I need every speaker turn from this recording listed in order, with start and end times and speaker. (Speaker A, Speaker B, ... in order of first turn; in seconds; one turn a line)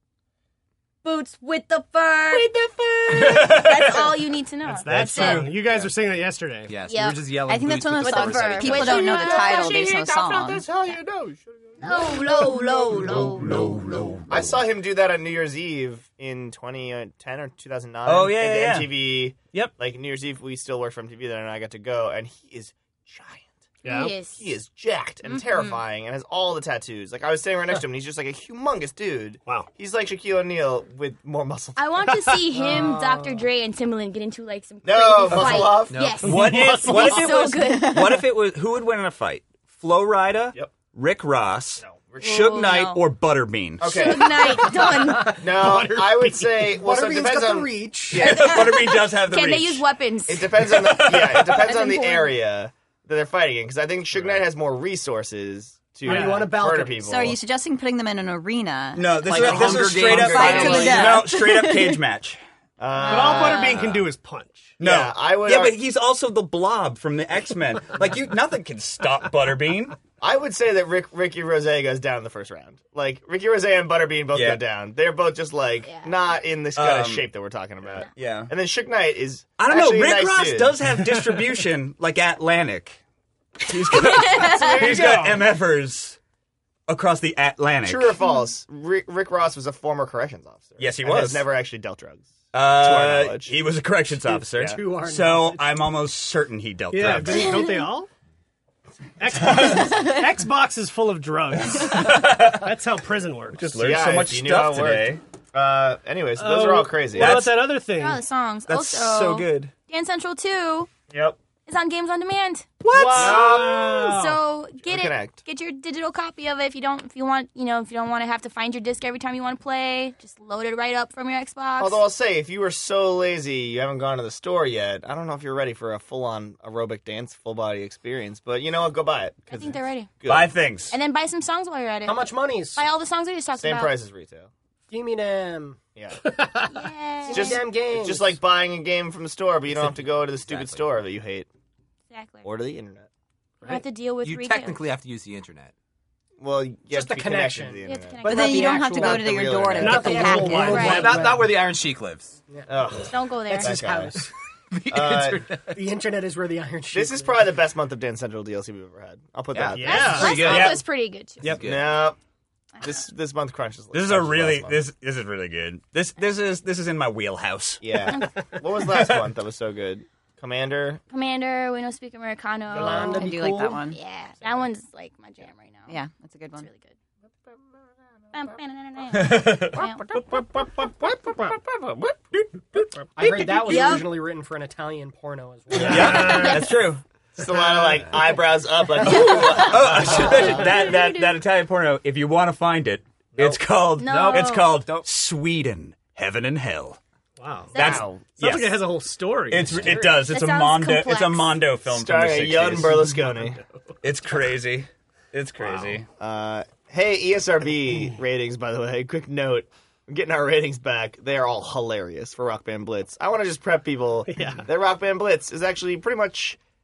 Speaker A: 1.0-5.4
Speaker B: 3.1-4.1
Speaker C: 4.6-6.7
Speaker B: 4.9-5.5
Speaker D: 5.3-5.9
Speaker D: 6.7-9.4
Speaker A: 6.8-7.2
Speaker E: 7.5-10.7
Speaker A: 8.0-10.6
Speaker F: 10.4-12.0
Speaker A: 11.8-14.1
Speaker B: 12.9-14.4
Speaker F: 14.3-23.7
Speaker B: 18.1-18.9
Speaker A: 23.8-24.5
Speaker C: 23.9-24.1
Speaker F: 24.3-32.1
Speaker A: 25.2-25.8
Speaker A: 31.8-38.2
Speaker G: 32.6-33.4
Speaker F: 34.8-36.0
Speaker D: 35.9-36.4
Speaker C: 36.2-37.4
Speaker B: 36.2-44.2
Speaker E: 37.7-38.2
Speaker F: 41.8-42.4
Speaker A: 42.2-43.1
Speaker F: 43.8-44.6
Speaker A: 43.8-45.5
Speaker G: 44.6-48.3
Speaker F: 45.3-48.6
Speaker B: 48.1-49.9
Speaker A: 48.2-52.3
Speaker F: 50.3-57.4
Speaker C: 56.0-56.5
Speaker G: 56.1-57.0
Speaker E: 57.0-62.0
Speaker B: 58.9-62.4
Speaker D: 59.2-61.3
Speaker F: 60.4-60.9
Speaker F: 62.8-63.8
Speaker A: 63.0-63.8
Speaker C: 63.0-64.8
Speaker B: 64.8-70.0
Speaker F: 64.8-65.8
Speaker F: 70.2-80.7
Speaker B: 74.3-74.6
Speaker A: 75.8-76.2
Speaker B: 76.8-77.3
Speaker B: 78.1-78.5
Speaker B: 79.6-83.0
Speaker B: 83.6-86.2
Speaker A: 84.1-84.8
Speaker C: 84.7-85.4
Speaker B: 86.9-88.2
Speaker F: 87.8-93.6
Speaker A: 88.2-88.5
Speaker B: 90.8-91.4
Speaker B: 92.5-97.6
Speaker G: 94.3-95.7
Speaker C: 96.9-98.1
Speaker A: 97.4-97.7
Speaker C: 99.2-103.8
Speaker B: 101.7-102.7
Speaker B: 103.5-105.2
Speaker F: 103.8-107.5
Speaker C: 106.4-108.2
Speaker B: 107.2-107.7
Speaker A: 107.9-110.9
Speaker B: 108.7-109.7
Speaker F: 111.1-111.4
Speaker A: 111.7-122.0
Speaker B: 112.8-113.5
Speaker C: 112.9-114.4
Speaker F: 113.0-113.9
Speaker F: 114.8-115.4
Speaker F: 121.8-130.5
Speaker A: 129.5-130.2
Speaker B: 130.2-130.9
Speaker A: 130.9-133.9
Speaker G: 132.1-132.9
Speaker F: 133.6-134.5
Speaker G: 134.9-135.8
Speaker F: 135.9-136.2
Speaker C: 136.2-136.7
Speaker A: 136.7-137.6
Speaker G: 137.2-138.3
Speaker F: 137.3-141.5
Speaker D: 140.4-140.8
Speaker A: 142.1-142.5
Speaker F: 142.4-143.1
Speaker A: 143.6-144.8
Speaker D: 144.2-145.7
Speaker F: 146.4-150.0
Speaker G: 146.9-151.6
Speaker A: 147.8-148.9
Speaker E: 148.2-150.9
Speaker C: 149.8-151.2
Speaker A: 150.6-151.2
Speaker D: 150.7-152.4
Speaker F: 152.7-154.2
Speaker A: 153.1-153.8
Speaker G: 153.5-154.3
Speaker D: 154.7-155.8
Speaker F: 154.9-155.4
Speaker G: 155.7-157.4
Speaker F: 156.9-160.8
Speaker D: 159.5-160.8
Speaker C: 159.8-160.3
Speaker A: 159.8-161.6
Speaker B: 160.5-160.8
Speaker D: 161.4-161.9
Speaker F: 161.4-162.2
Speaker F: 162.8-164.8
Speaker B: 163.9-168.1
Speaker F: 167.8-171.0
Speaker A: 168.1-168.5
Speaker A: 171.1-176.0
Speaker G: 172.7-173.8
Speaker E: 173.0-174.0
Speaker E: 175.9-176.7
Speaker A: 176.6-176.9
Speaker A: 178.3-180.1
Speaker B: 179.1-182.9
Speaker G: 183.2-186.5
Speaker A: 183.6-184.1
Speaker B: 185.8-187.0
Speaker C: 185.8-186.5
Speaker A: 186.2-186.8
Speaker F: 187.3-190.8
Speaker B: 189.0-197.0
Speaker A: 189.1-191.4
Speaker A: 194.0-194.8
Speaker D: 194.0-195.1
Speaker C: 197.4-197.8
Speaker A: 197.7-198.1
Speaker B: 197.7-198.8
Speaker F: 197.8-198.2
Speaker C: 198.3-200.0
Speaker B: 199.5-203.0
Speaker D: 199.7-200.1
Speaker A: 200.2-201.6
Speaker F: 201.9-203.6
Speaker C: 203.2-203.6
Speaker B: 204.0-206.1
Speaker F: 206.1-216.6
Speaker C: 214.3-214.7